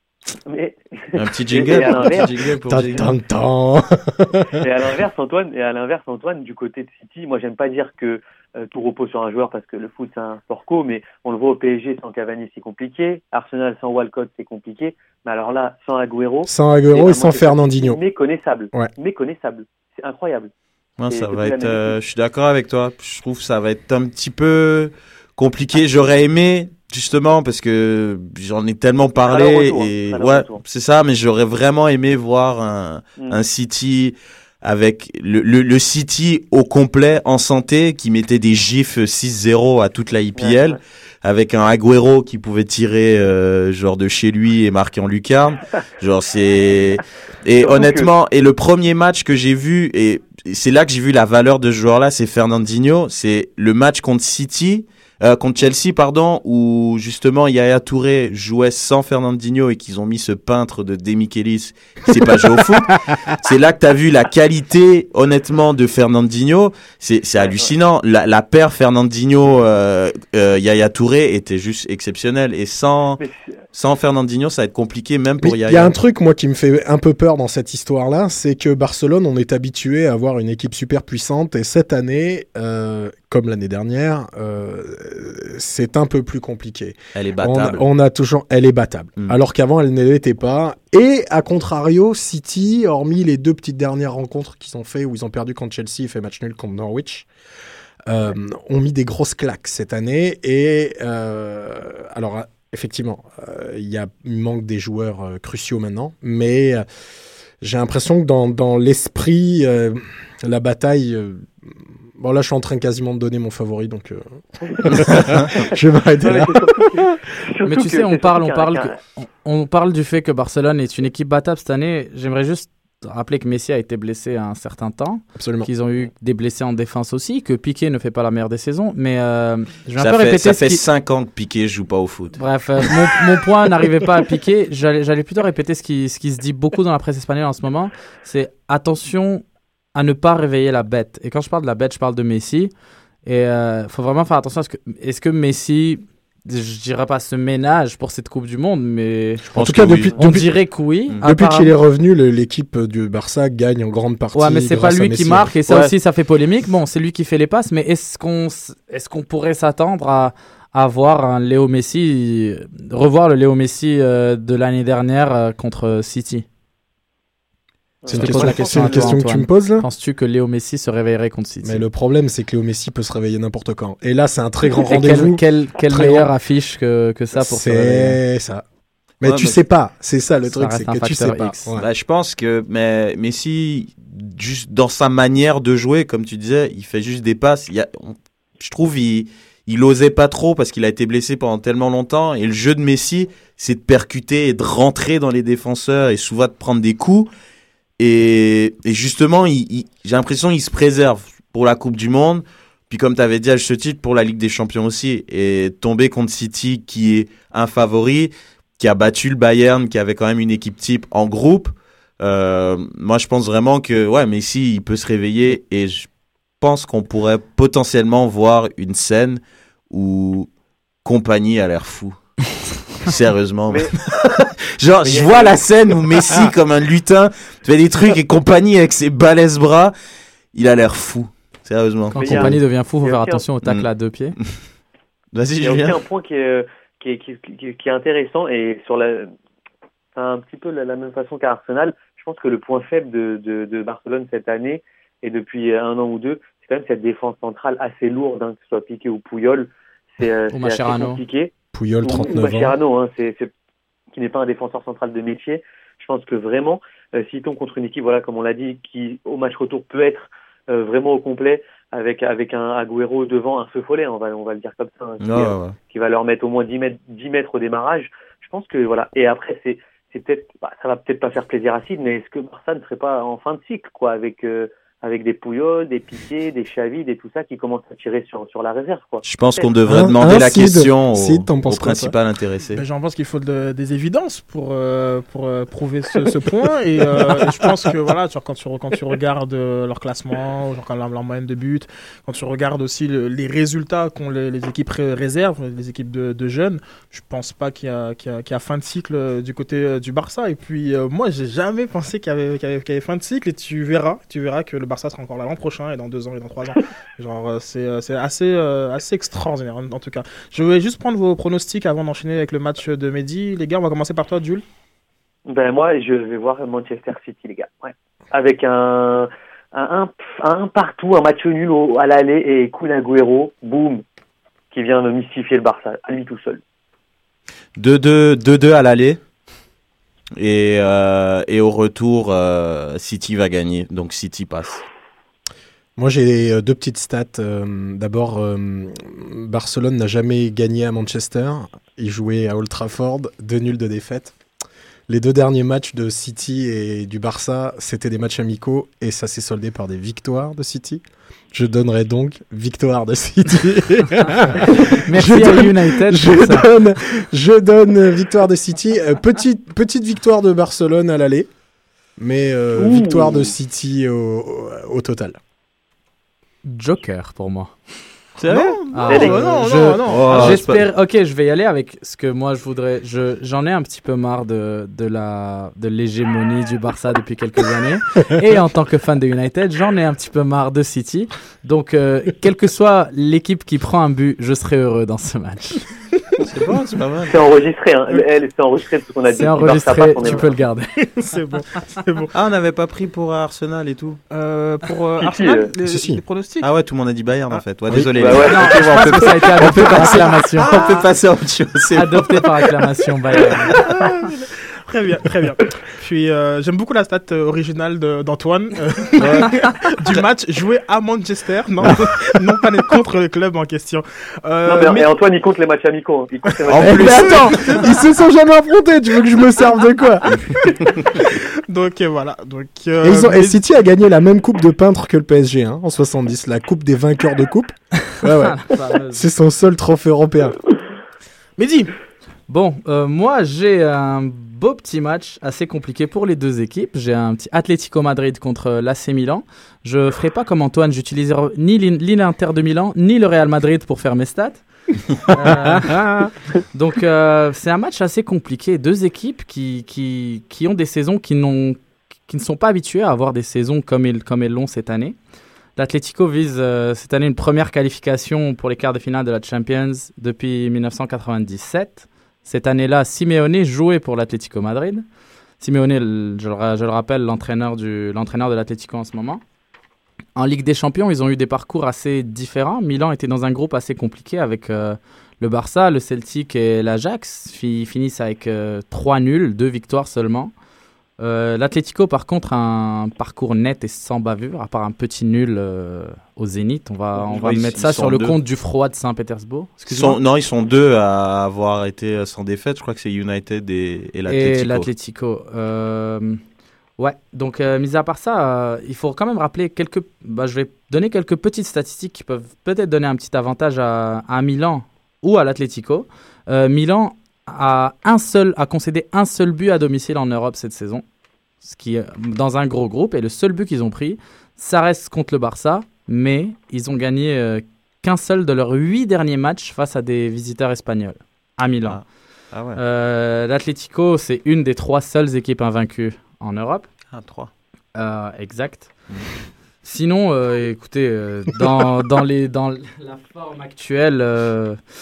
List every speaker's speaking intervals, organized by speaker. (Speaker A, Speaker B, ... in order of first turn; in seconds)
Speaker A: 0.5-2.3, 4.6-20.5, 21.1-21.9, 29.3-30.6, 40.4-40.8, 47.6-48.1, 67.4-67.7, 114.8-115.3, 116.2-118.9, 168.0-169.0, 225.1-225.6, 232.2-233.4, 235.6-239.3, 240.2-251.5, 252.0-253.5, 254.1-279.7, 315.5-324.0, 324.7-326.6, 362.8-363.5, 387.3-390.5, 395.2-395.7, 398.1-399.2, 414.6-417.4
Speaker B: 1.1-3.1, 21.0-73.2, 73.7-75.9, 87.1-87.8, 130.0-132.4, 149.5-150.2, 179.2-179.6, 181.8-197.3, 198.0-216.1, 216.6-220.5, 221.1-222.2, 223.0-229.9, 230.5-232.5, 235.3-236.0, 265.2-265.7, 279.2-282.8, 327.8-329.2, 330.4-334.8, 368.4-369.5, 370.1-370.9, 386.4-387.4, 392.3-394.2, 396.6-402.4, 409.2-410.2, 416.7-417.6, 487.1-488.4, 489.9-494.9, 521.9-522.8, 527.1-527.5
Speaker C: 1.8-4.6, 16.4-18.0, 75.4-97.3, 98.1-106.8, 107.6-117.2, 125.4-125.7, 149.6-150.5, 151.2-155.6, 168.1-169.9, 171.6-176.3, 177.3-178.6, 179.2-181.9, 251.7-252.7, 279.9-282.1, 335.9-344.4, 345.1-361.5, 362.2-365.4, 395.8-396.2, 416.8-420.7, 423.0-430.6
Speaker D: 117.6-130.8, 132.3-142.7, 143.2-149.5, 150.2-151.7, 154.3-166.4, 168.1-171.8, 174.7-178.2, 180.5-181.7, 232.1-234.4, 250.5-251.2, 355.0-356.7, 366.6-367.7, 368.9-385.8, 389.3-390.9, 398.4-400.8, 401.9-403.8, 428.2-429.2, 432.5-444.6, 445.2-446.1, 446.7-455.1, 455.8-465.0, 465.6-469.4, 470.4-480.5, 481.2-490.2, 494.3-496.4, 497.0-511.0, 511.6-522.0, 522.8-526.9, 527.9-528.9, 529.8-534.8
Speaker E: 282.7-314.6, 368.5-370.6, 391.0-392.3, 394.3-396.7, 400.6-401.1, 403.7-415.1, 417.4-417.8, 420.6-423.6, 431.6-431.9